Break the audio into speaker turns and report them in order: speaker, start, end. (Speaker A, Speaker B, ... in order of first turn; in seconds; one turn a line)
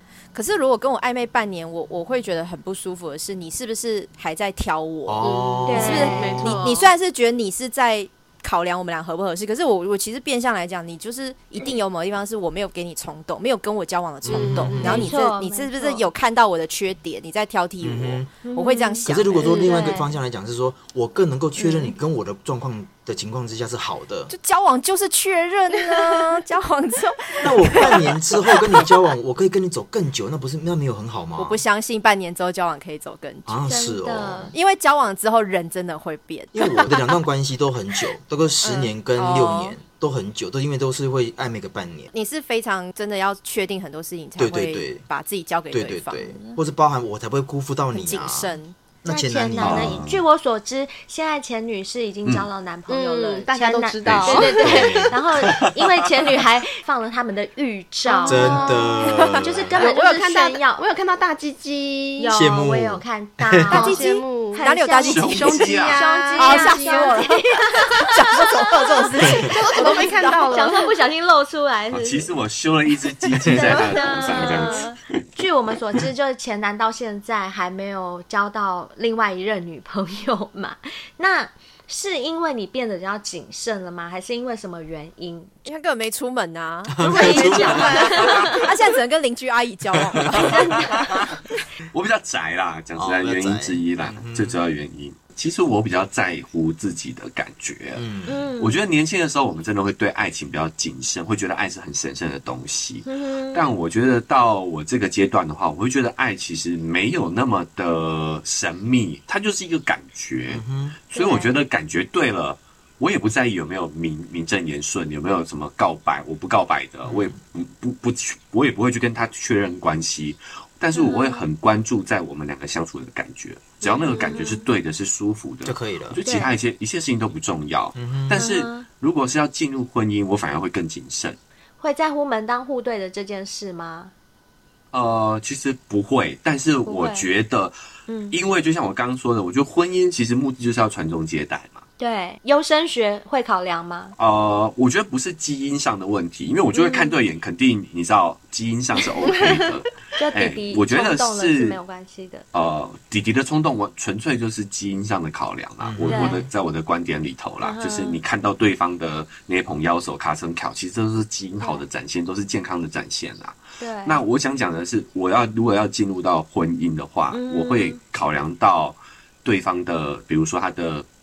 Speaker A: 0.3-19.9
Speaker B: 5.1-6.7
Speaker C: 5.2-6.9
Speaker D: 5.7-6.4
Speaker B: 14.2-15.1
Speaker C: 14.3-15.1
Speaker D: 14.8-16.0
Speaker B: 17.8-18.3
Speaker D: 18.4-20.1
Speaker B: 19.1-24.3
Speaker C: 19.4-19.8
Speaker D: 21.6-21.9
Speaker A: 24.3-28.9
Speaker C: 25.9-26.2
Speaker B: 27.4-31.6
Speaker A: 31.4-33.6
Speaker B: 33.5-34.5
Speaker D: 33.7-34.5
Speaker A: 34.5-36.9
Speaker B: 36.5-42.1
Speaker A: 38.6-39.8
Speaker A: 42.1-46.6
Speaker B: 44.4-45.1
Speaker B: 45.7-50.1
Speaker A: 47.9-48.8
Speaker D: 49.1-60.9
Speaker E: 49.6-50.2
Speaker C: 52.9-54.9
Speaker E: 54.0-54.9
Speaker B: 54.5-55.2
Speaker C: 58.1-58.8
Speaker B: 58.2-59.7
Speaker A: 59.2-59.5
Speaker C: 59.8-62.3
Speaker D: 62.2-72.3
Speaker B: 62.3-63.9
Speaker C: 63.7-67.5
Speaker A: 63.7-65.8
Speaker E: 65.1-66.0
Speaker A: 66.4-70.7
Speaker C: 69.3-70.9
Speaker E: 71.9-74.9
Speaker D: 73.5-85.5
Speaker C: 74.4-74.6
Speaker A: 85.7-91.0
Speaker B: 86.9-88.3
Speaker D: 87.0-88.7
Speaker E: 88.1-88.5
Speaker D: 90.4-90.9
Speaker E: 90.5-91.1
Speaker E: 91.9-98.0
Speaker B: 93.0-94.6
Speaker B: 98.0-98.5
Speaker D: 98.3-98.8
Speaker E: 98.6-131.4
Speaker D: 103.1-103.6
Speaker B: 110.5-111.0
Speaker D: 111.1-111.5
Speaker B: 117.1-117.4
Speaker D: 120.9-121.5
Speaker D: 123.8-124.6
Speaker C: 124.0-124.5
Speaker B: 125.7-126.2
Speaker B: 128.0-128.5
Speaker D: 128.3-128.9
Speaker D: 131.8-134.1
Speaker E: 134.9-137.7
Speaker D: 136.9-137.3
Speaker D: 138.1-138.4
Speaker E: 138.3-141.8
Speaker D: 142.0-144.2
Speaker E: 144.2-151.8
Speaker D: 146.7-147.2
Speaker D: 150.2-152.4
Speaker E: 152.5-171.1
Speaker B: 155.8-156.5
Speaker D: 156.1-156.5
Speaker D: 157.6-158.2
Speaker D: 163.8-164.2
Speaker D: 167.3-168.0